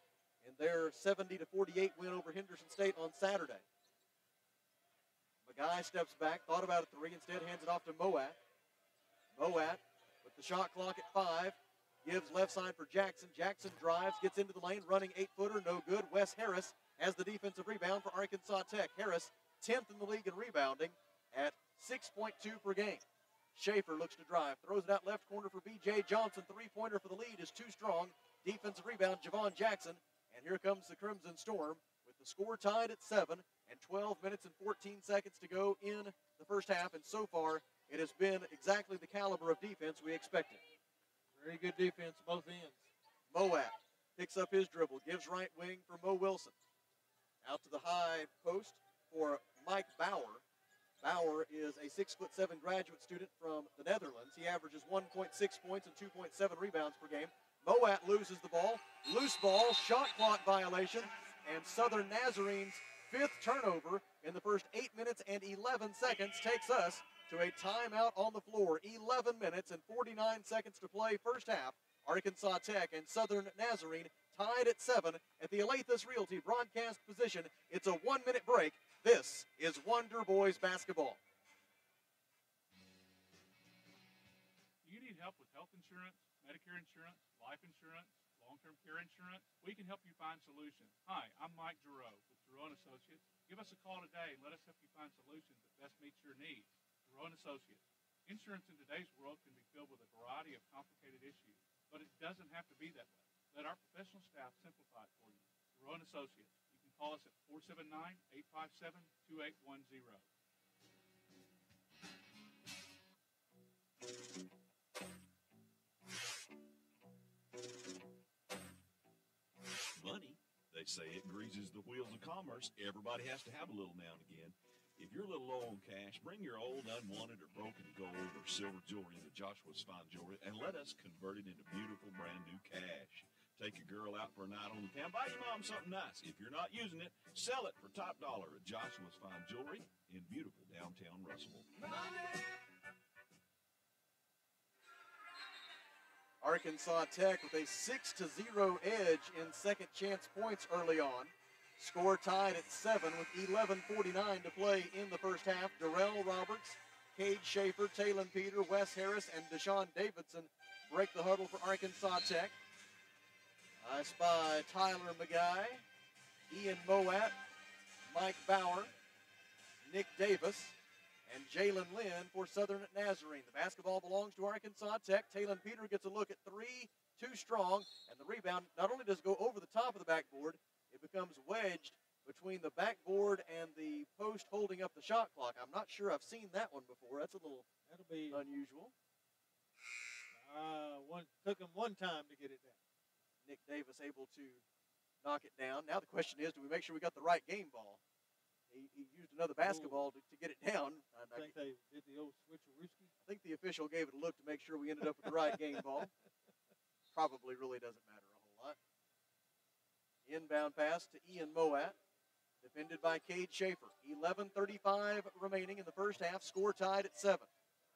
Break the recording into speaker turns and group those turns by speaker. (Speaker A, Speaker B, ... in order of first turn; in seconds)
Speaker A: 0.4-3.6, 5.5-8.4, 9.3-23.0, 23.5-40.6, 43.3-46.5, 47.4-50.4, 51.0-81.2, 146.4-162.6, 163.8-165.8, 166.5-167.4, 168.1-168.9, 169.8-170.8, 171.3-187.7, 188.3-188.9, 193.4-194.6, 195.2-198.0, 198.7-201.6, 203.3-206.1, 207.1-208.8, 210.3-212.0, 212.6-217.5
Speaker B: 41.3-42.9, 187.9-188.4, 190.3-192.8, 199.6-200.1, 201.3-203.1
Speaker C: 84.8-110.3
Speaker D: 120.0-141.7